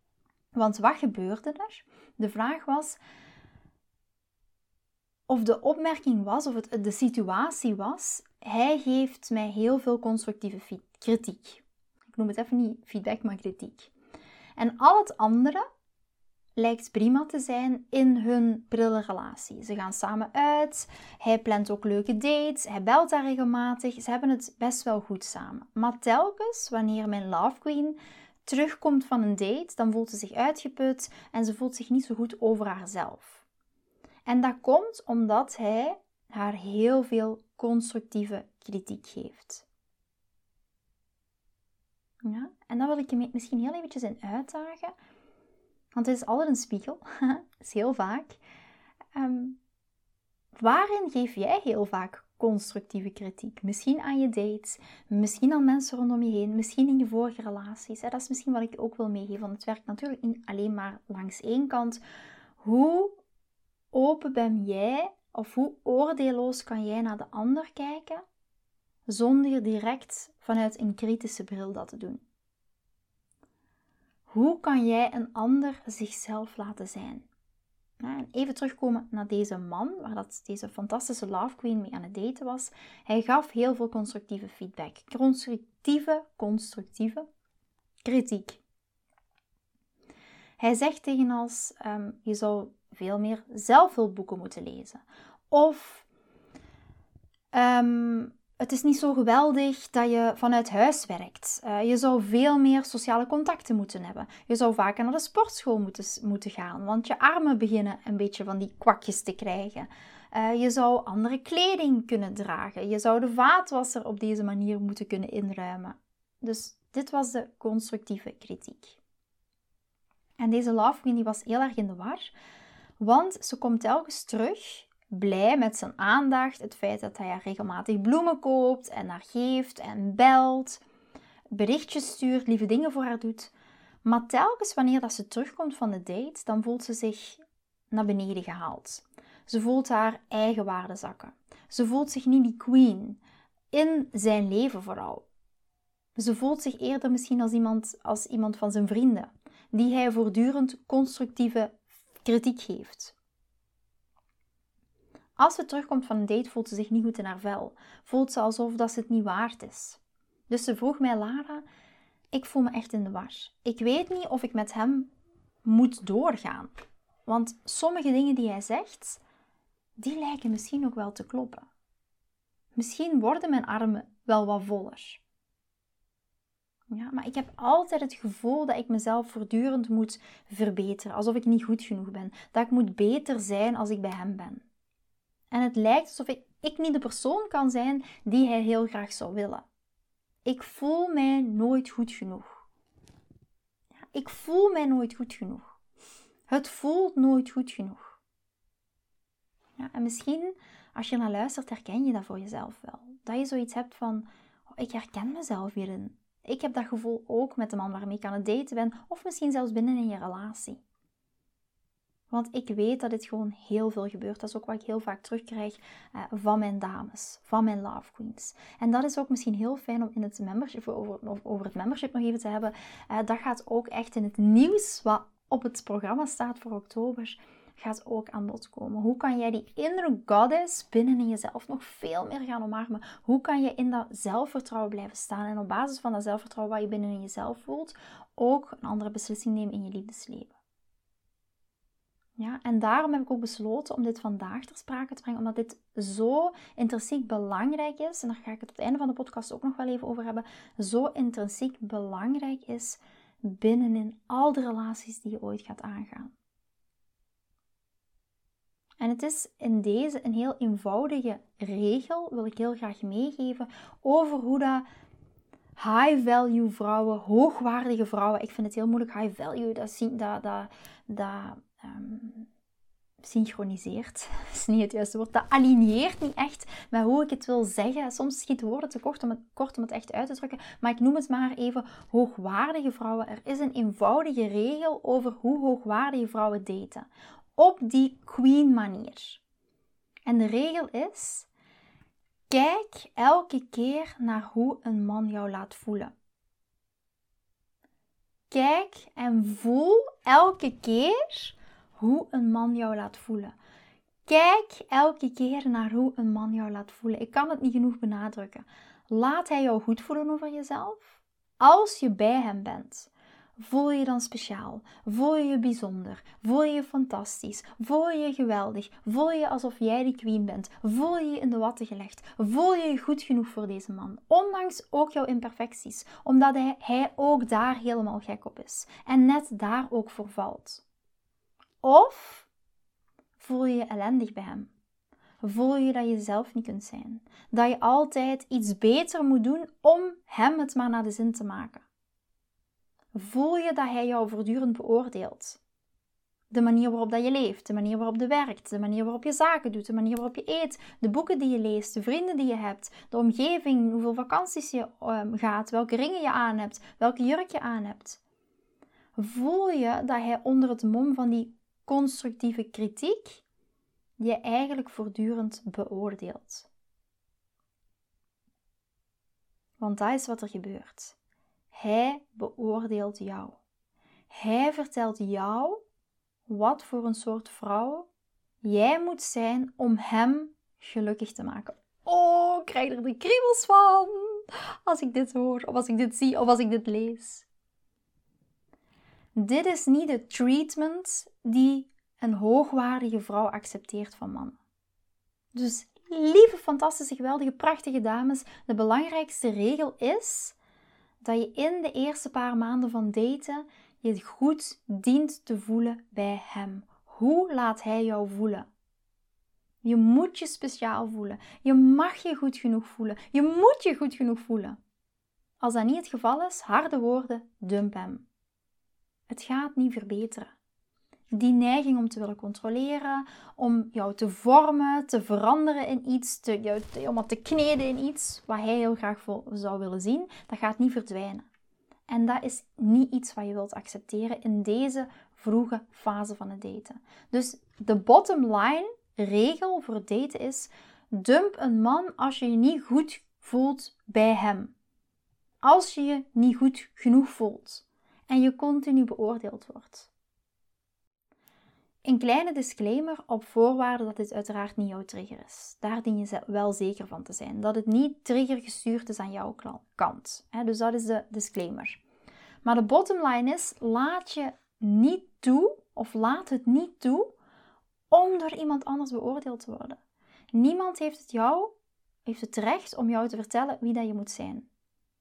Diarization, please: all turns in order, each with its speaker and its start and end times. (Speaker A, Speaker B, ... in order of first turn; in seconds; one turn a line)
Speaker A: 0.6-3.0
Speaker A: 5.3-13.9
Speaker A: 14.6-15.6
Speaker A: 16.6-33.4
Speaker A: 34.3-39.6
Speaker A: 42.2-44.9
Speaker A: 45.9-48.4
Speaker A: 49.1-49.6
Speaker A: 50.6-62.0
Speaker A: 62.6-63.2
Speaker A: 63.9-68.2
Speaker A: 69.1-72.2
Speaker A: 74.3-77.3
Speaker A: 78.0-87.3
Speaker A: 88.0-88.6
Speaker A: 90.6-96.1
Speaker A: 97.5-119.0
Speaker A: 120.4-122.3
Speaker A: 123.0-130.8
Speaker A: 131.5-133.5
Speaker A: 134.0-143.2
Speaker A: 143.7-145.3
Speaker A: 146.2-153.2
Speaker A: 155.4-161.7
Speaker A: 162.3-165.1
Speaker A: 165.6-166.7
Speaker A: 167.3-169.2
Speaker A: 170.0-171.7
Speaker A: 172.8-175.2
Speaker A: 176.9-184.6
Speaker A: 185.5-189.7
Speaker A: 190.4-192.6
Speaker A: 194.1-195.7
Speaker A: 196.5-198.2
Speaker A: 199.8-210.8
Speaker A: 212.3-240.5
Speaker A: 242.4-256.3
Speaker A: 259.0-264.9
Speaker A: 265.8-272.5
Speaker A: 273.2-289.4
Speaker A: 290.3-291.5
Speaker A: 292.5-296.1
Speaker A: 298.5-303.6
Speaker A: 304.3-330.8
Speaker A: 331.8-332.5
Speaker A: 333.4-334.7
Speaker A: 335.4-341.9
Speaker A: 343.1-345.6
Speaker A: 346.5-358.2
Speaker A: 359.2-363.4
Speaker A: 364.2-366.7
Speaker A: 369.8-371.2
Speaker A: 371.7-373.6
Speaker A: 374.3-375.8
Speaker A: 376.5-378.1
Speaker A: 378.6-387.5
Speaker A: 389.4-394.6
Speaker A: 395.5-400.6
Speaker A: 401.2-408.7
Speaker A: 409.8-414.8
Speaker A: 415.6-418.2
Speaker A: 419.3-420.6
Speaker A: 421.4-431.5
Speaker A: 432.1-444.7
Speaker A: 445.6-450.1
Speaker A: 452.0-462.0
Speaker A: 462.6-467.3
Speaker A: 468.1-470.0
Speaker A: 470.5-471.7
Speaker A: 472.3-474.7